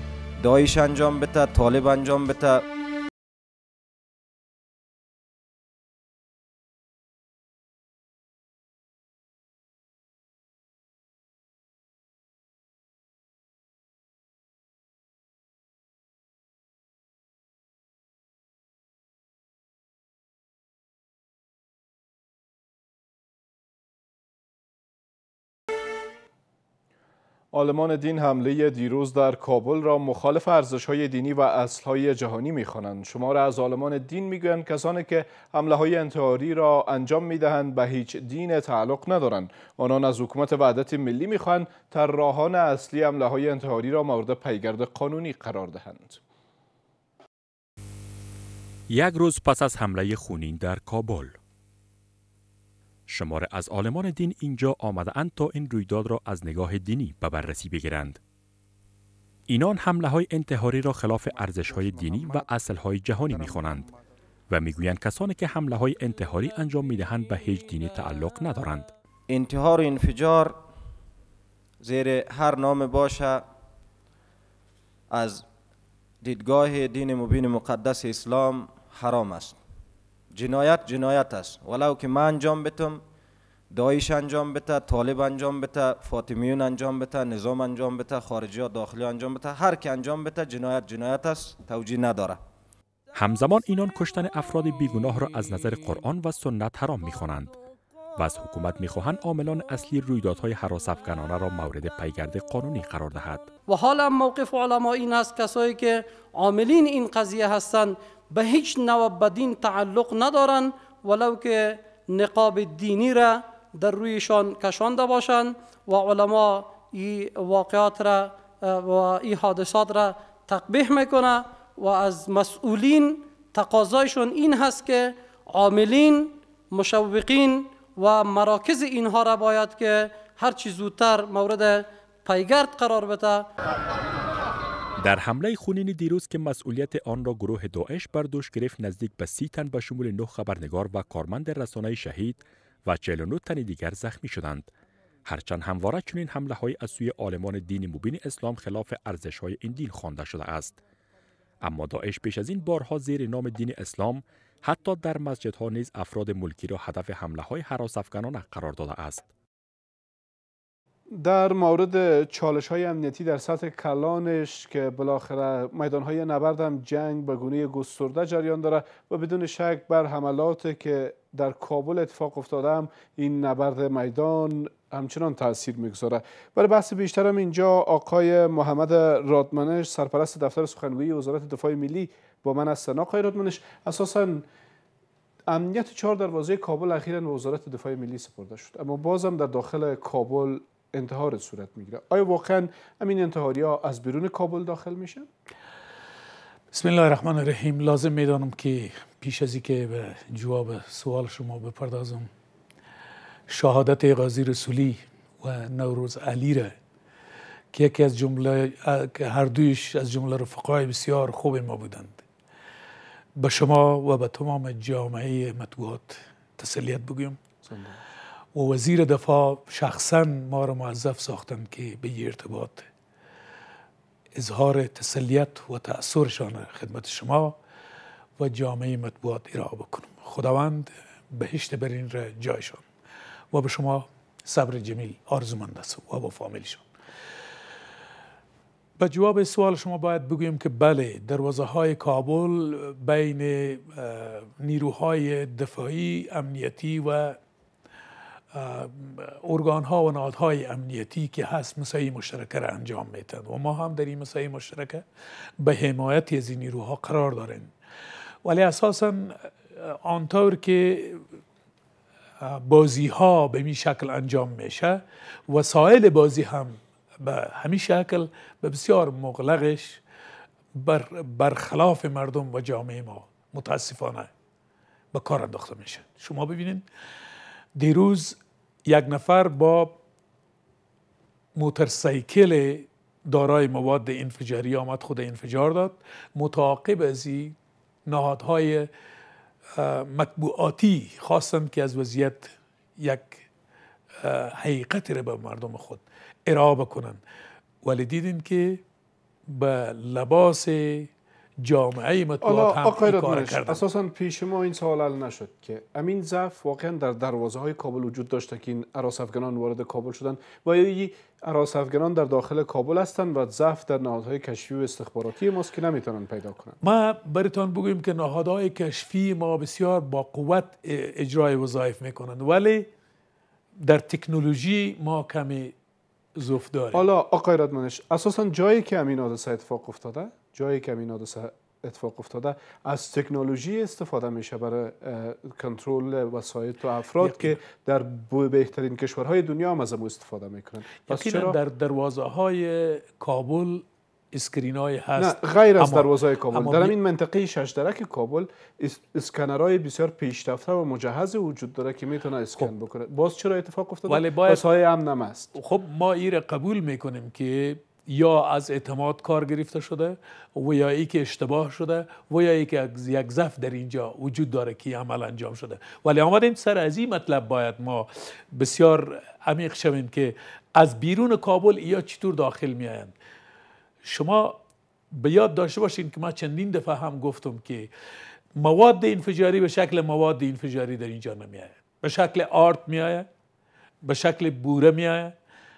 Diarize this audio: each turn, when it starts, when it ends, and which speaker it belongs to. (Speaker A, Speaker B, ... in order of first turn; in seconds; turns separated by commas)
Speaker A: 0.4-2.6, Speaker B: 27.5-46.2, Speaker C: 48.9-51.4, Speaker C: 53.1-58.2, Speaker C: 59.5-63.9, Speaker C: 64.5-68.9, Speaker A: 69.3-70.6, Speaker A: 71.8-73.5, Speaker A: 75.1-75.4, Speaker A: 76.2-79.6, Speaker A: 80.3-83.0, Speaker A: 83.7-92.4, Speaker C: 93.1-97.6, Speaker C: 98.2-103.5, Speaker D: 103.7-133.5, Speaker C: 135.0-144.7, Speaker C: 145.3-150.8, Speaker C: 151.6-159.3, Speaker B: 161.1-184.4, Speaker B: 185.5-195.3, Speaker E: 196.7-202.3, Speaker E: 203.5-206.7, Speaker E: 207.7-212.2, Speaker E: 213.4-217.4, Speaker B: 217.7-218.0, Speaker E: 218.6-222.9, Speaker E: 224.4-227.6, Speaker E: 228.4-232.9, Speaker E: 233.5-236.9, Speaker E: 239.0-247.4, Speaker E: 248.5-255.0, Speaker E: 255.6-257.7, Speaker E: 258.4-261.2, Speaker E: 262.4-270.0, Speaker E: 270.8-274.3, Speaker E: 275.1-276.8, Speaker E: 277.8-280.0, Speaker E: 281.6-287.6, Speaker E: 288.1-288.9, Speaker E: 289.8-293.5, Speaker E: 294.2-297.2, Speaker E: 297.8-298.8, Speaker E: 299.5-301.1, Speaker E: 301.6-303.8, Speaker B: 302.4-316.8, Speaker E: 316.8-322.9, Speaker E: 323.8-325.7, Speaker E: 326.4-327.1, Speaker B: 326.9-341.6, Speaker E: 337.2-337.6, Speaker E: 341.0-347.0, Speaker B: 345.2-355.5, Speaker E: 354.1-354.6, Speaker E: 355.6-373.1, Speaker E: 374.1-374.6, Speaker E: 375.1-377.9, Speaker E: 378.6-383.3, Speaker E: 384.1-385.3